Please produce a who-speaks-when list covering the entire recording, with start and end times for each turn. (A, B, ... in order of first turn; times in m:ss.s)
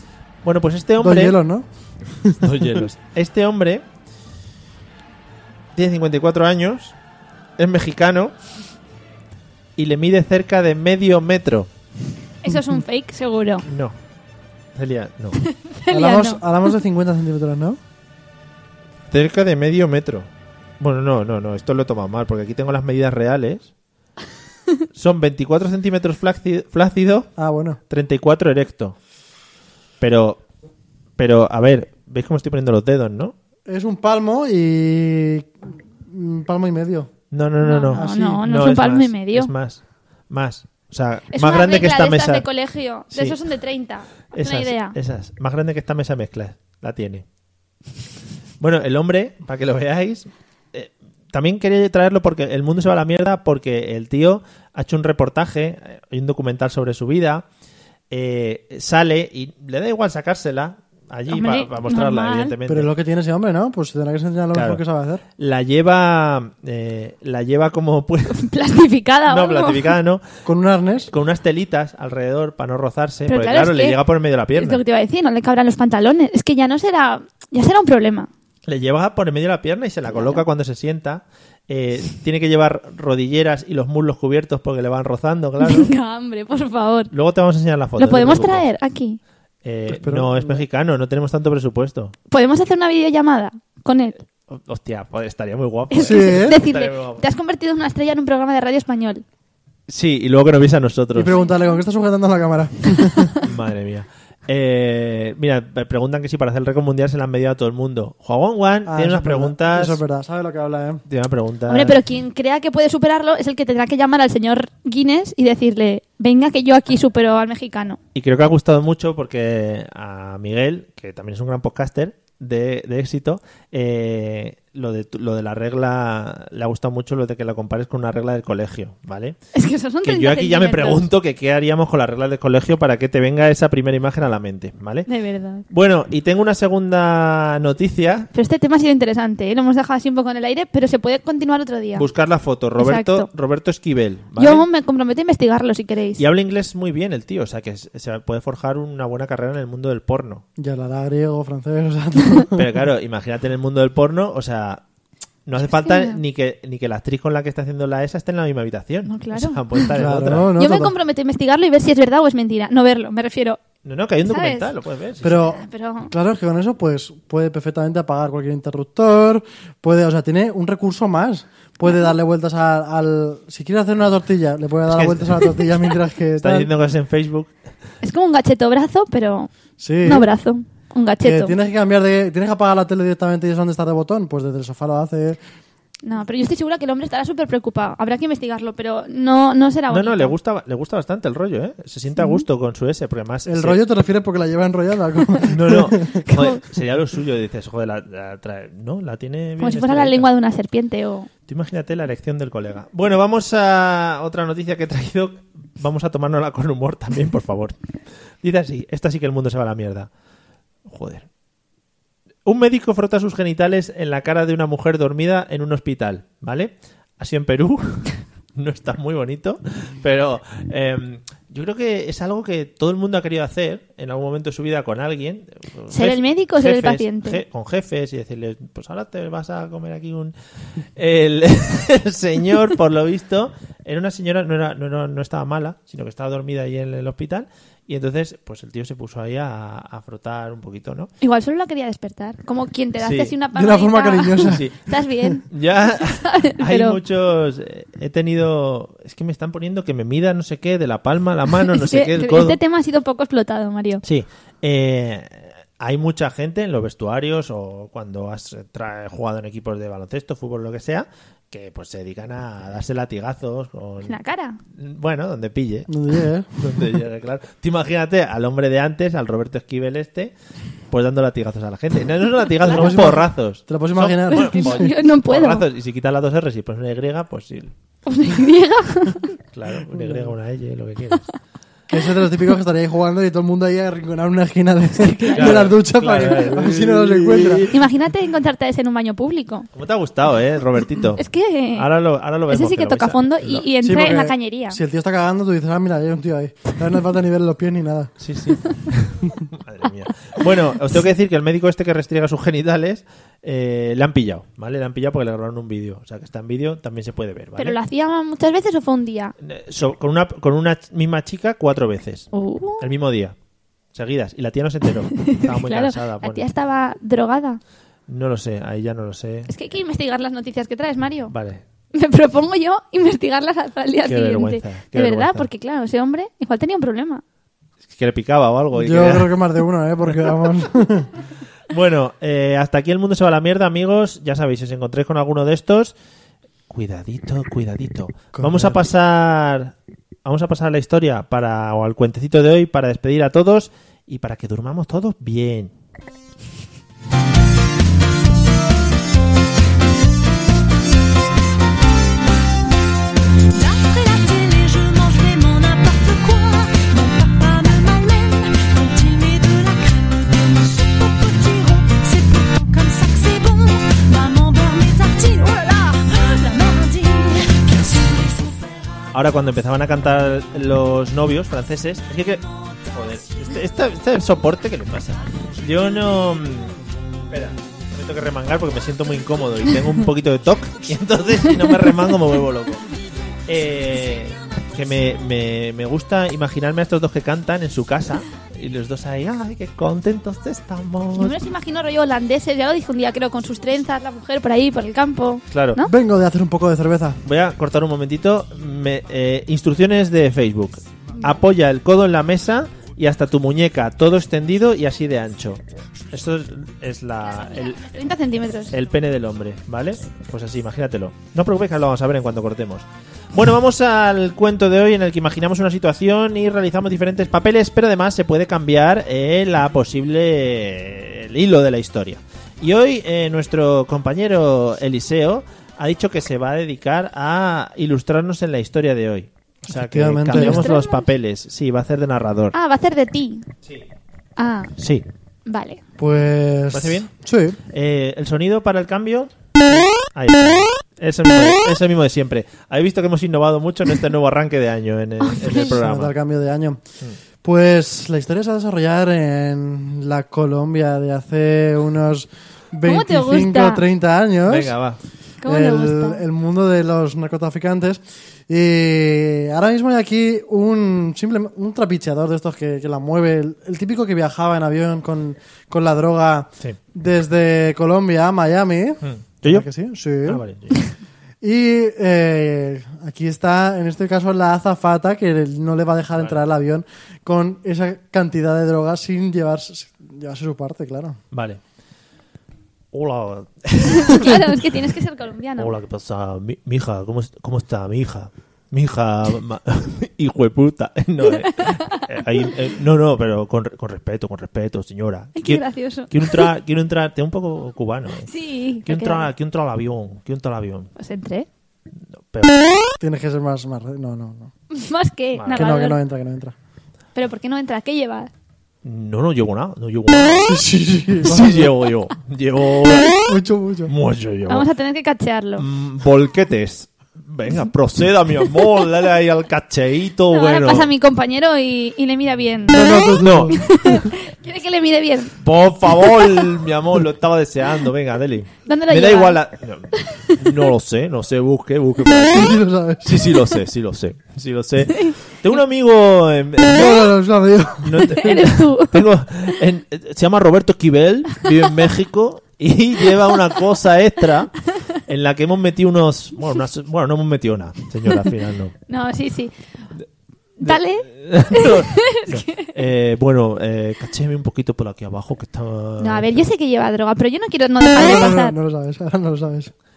0:00.4-0:01.4 A
0:01.0-0:02.8 B
0:02.4-0:03.8 A
0:05.7-0:07.0 A
0:07.6-0:08.3 A
0:09.8-0:11.7 A
0:12.4-0:13.7 C
0:13.7-0:14.0 A
0:14.7-0:15.4 A
0:15.4-0:16.4 C
0:15.9-0:17.8 B
0:19.1-0:20.3 A
0:20.8-0:23.7 A
0:25.0-0:27.3 A
0:27.4-0:27.8 B
0:27.9-0:29.0 A
0:30.0-0:30.4 A
0:31.2-0:33.4 A
0:33.7-0:37.1 B
0:37.3-0:42.4 A
0:37.6-0:39.5 C
0:37.9-0:38.3 B
0:41.3-0:45.0 C
0:43.1-0:43.4 A
0:44.3-0:47.2 A
0:48.6-0:57.4 A
0:58.1-1:02.9 A
1:01.3-1:02.6 C
1:02.7-1:05.2 B
1:04.5-1:04.8 A
1:05.4-1:08.5 A
1:08.3-1:10.0 C
1:09.3-1:10.2 A
1:10.4-1:11.1 B
1:11.1-1:14.8 A
1:13.3-1:14.0 C
1:14.6-1:18.3 C
1:18.7-1:25.9 A
1:20.1-1:20.4 C
1:25.6-1:27.1 C
1:27.1-1:28.7 A
1:28.0-1:29.2 C
1:29.6-1:32.1 A
1:29.9-1:30.6 B
1:32.3-1:34.2 C
1:34.5-1:37.2 A
1:35.9-1:39.2 C
1:36.0-1:36.6 B
1:39.9-1:41.3 A
1:41.1-1:43.4 B
1:41.3-1:41.8 C
1:43.4-1:50.0 A
1:48.9-1:51.0 B
1:51.1-1:52.0 A
1:51.7-1:58.0 C
1:58.1-2:09.4 A
2:09.5-2:11.0 C
2:10.0-2:15.1 A
2:15.1-2:15.6 C
2:15.7-2:18.3 A
2:18.3-2:22.1 C
2:22.0-2:24.7 A
2:22.8-2:23.3 C
2:24.4-2:26.2 C
2:26.2-2:30.4 A
2:30.6-2:32.7 B
2:32.6-2:34.8 A
2:35.4-2:40.5 A
2:35.8-2:36.2 C
2:39.0-2:39.9 C
2:39.9-2:40.9 B
2:40.6-2:43.6 C
2:43.8-2:45.5 A
2:44.3-2:44.7 C
2:45.2-2:56.7 B
2:45.5-2:46.1 C
2:54.9-2:55.6 A
2:56.4-2:57.5 A
2:58.0-2:59.5 C
2:59.8-3:00.3 B
3:00.0-3:01.5 C
3:01.2-3:05.4 B
3:06.0-3:10.4 C
3:09.9-3:13.8 A
3:13.4-3:16.2 B
3:15.5-3:20.3 A
3:16.2-3:16.6 C
3:19.6-3:21.3 C
3:21.5-3:27.8 A
3:28.4-3:30.1 A
3:30.9-3:31.3 A
3:32.4-3:50.3 A
3:45.9-3:47.4 C
3:51.0-4:01.1 A
4:01.2-4:05.4 C
4:03.0-4:03.4 A
4:03.5-4:04.6 B
4:04.4-4:04.9 A
4:05.4-4:12.6 A
4:06.0-4:07.0 C
4:11.6-4:14.0 C
4:14.0-4:24.2 A
4:24.0-4:24.6 C
4:24.7-4:26.0 A
4:25.9-4:26.9 B
4:26.6-4:30.3 A
4:30.9-4:37.7 A
4:32.6-4:34.9 B
4:34.3-4:35.6 C
4:38.0-4:39.3 C
4:39.5-4:41.3 A
4:40.0-4:40.3 B
4:41.9-4:47.7 B
4:45.0-4:45.7 C
4:45.4-4:47.8 A
4:47.7-4:49.7 C
4:49.7-4:51.2 A
4:51.2-4:51.9 C
4:51.7-4:53.7 A
4:52.5-4:54.8 C
4:53.8-4:58.1 B
4:58.2-5:07.8 A
5:07.6-5:09.3 C
5:09.4-5:13.4 A
5:12.3-5:12.9 C
5:13.9-5:16.4 A
5:15.1-5:17.6 C
5:18.1-5:19.5 A
5:19.5-5:21.3 C
5:21.3-5:21.6 A
5:21.9-5:27.2 C
5:24.0-5:25.5 A
5:27.9-5:29.4 A
5:28.7-5:31.1 B
5:31.7-5:35.9 A
5:36.7-5:39.7 A
5:38.4-5:38.7 B
5:40.2-5:45.7 A
5:53.5-6:08.7 D
6:09.1-6:22.8 A
6:23.5-6:31.4 A
6:31.2-6:35.9 C
6:35.5-6:35.8 A
6:35.8-6:37.2 B
6:37.2-6:47.8 A
6:47.4-6:48.7 C
6:48.7-7:12.6 A
7:09.7-7:10.7 B
7:10.3-7:11.0 C
7:12.5-7:13.5 C
7:14.4-7:14.7 C
7:14.8-7:15.0 A
7:15.4-7:15.8 C
7:16.0-7:17.6 B
7:16.7-7:17.1 A
7:17.7-7:19.3 A
7:20.1-7:26.1 A
7:25.2-7:25.7 C
7:25.6-7:26.8 B
7:27.4-7:34.7 B
7:32.9-7:33.8 C
7:34.5-7:35.0 A
7:35.4-7:36.2 C
7:35.4-7:50.4 B
7:49.0-7:49.7 A
7:50.2-7:50.8 A
7:51.4-8:01.2 B
8:01.3-8:01.6 A
8:02.9-8:04.6 A
8:03.9-8:05.7 C
8:05.6-8:18.3 A
8:11.4-8:12.0 C
8:15.4-8:16.5 C
8:18.3-8:19.3 C
8:18.9-8:20.9 A
8:21.0-8:21.5 C
8:22.2-8:22.6 A
8:23.0-8:24.5 B
8:24.7-8:26.0 C
8:25.4-8:25.7 A
8:25.5-8:26.6 B
8:27.1-8:28.3 C
8:28.8-8:30.6 A
8:30.4-8:31.7 B
8:31.2-8:33.3 A
8:33.3-8:33.9 B
8:33.9-8:34.7 A
8:34.5-8:35.6 C
8:35.6-8:40.9 A
8:40.3-8:45.3 C
8:42.7-8:44.0 B
8:43.2-8:43.7 A
8:45.4-8:57.1 A
8:48.7-8:49.4 C
8:50.0-8:50.5 C
8:52.3-8:53.1 B
8:54.9-8:55.2 C
8:56.6-8:58.4 B
8:57.8-9:08.7 A
8:58.1-8:59.0 C
9:08.9-9:09.5 C
9:10.6-9:12.7 C
9:10.6-9:16.4 A
9:16.0-9:18.6 C
9:17.9-9:19.7 B